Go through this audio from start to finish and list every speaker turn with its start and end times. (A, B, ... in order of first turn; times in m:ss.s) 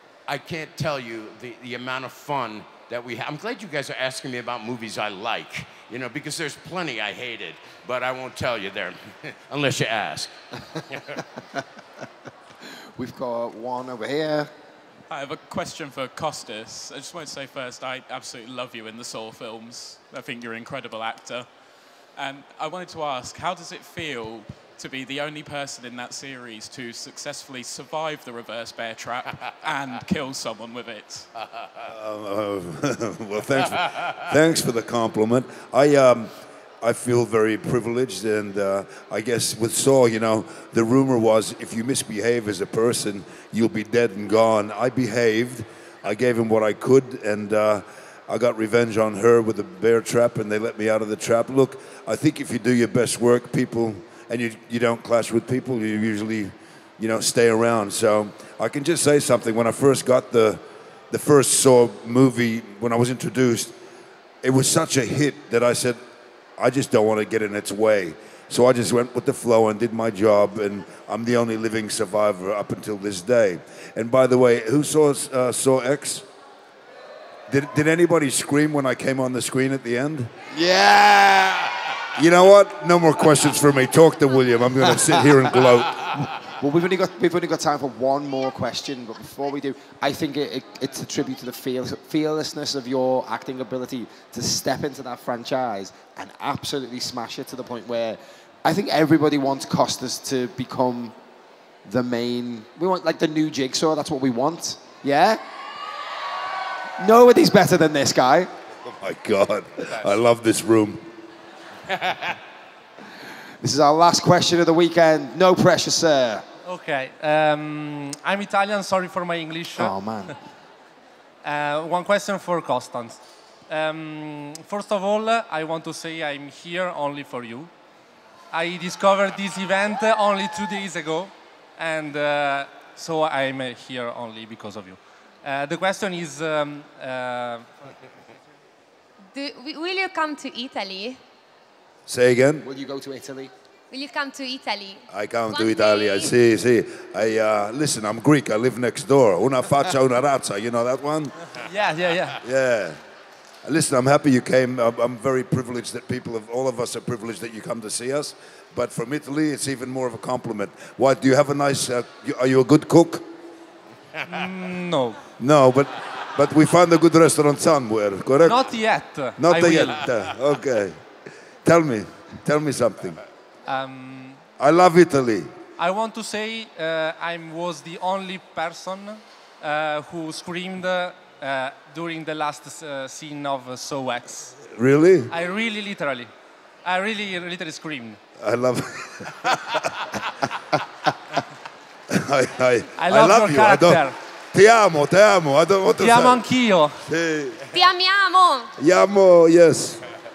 0:00.3-0:10.3 A
0:10.9-0:11.2 A
0:12.9-0:14.5 B
0:15.1-0:21.5 C
0:22.2-0:31.3 C
0:31.8-1:03.8 D
1:04.4-1:06.0 D
1:06.6-1:16.2 D
1:17.5-1:20.3 D
1:20.5-1:21.7 B
1:22.2-1:26.3 D
1:26.6-1:41.1 B
1:41.8-1:45.4 B
1:47.0-1:48.5 B
1:48.9-1:51.0 D
1:53.6-1:56.4 B
1:56.6-1:59.9 E
1:59.8-2:00.4 B
2:01.4-2:07.7 E
2:08.5-2:17.7 E
2:19.3-2:21.2 F
2:22.1-2:22.6 D
2:22.6-2:23.5 B
2:23.9-2:26.3 F
2:25.1-2:31.5 D
2:31.6-2:32.4 E
2:32.4-2:33.0 D
2:33.6-2:43.3 D
2:44.3-2:45.2 E
2:45.4-2:48.6 D
2:48.4-2:50.0 E
2:49.4-2:51.0 D
2:51.6-2:53.2 D
2:53.7-2:54.4 E
2:54.6-2:55.5 D
2:55.8-3:04.6 E
3:04.7-3:05.3 D
3:05.3-3:06.3 E
3:06.8-3:08.2 E
3:08.4-3:09.9 D
3:12.1-3:16.5 D
3:13.0-3:14.2 E
3:16.0-3:17.0 E
3:17.0-3:17.6 D
3:17.7-3:18.7 F
3:18.8-3:20.0 D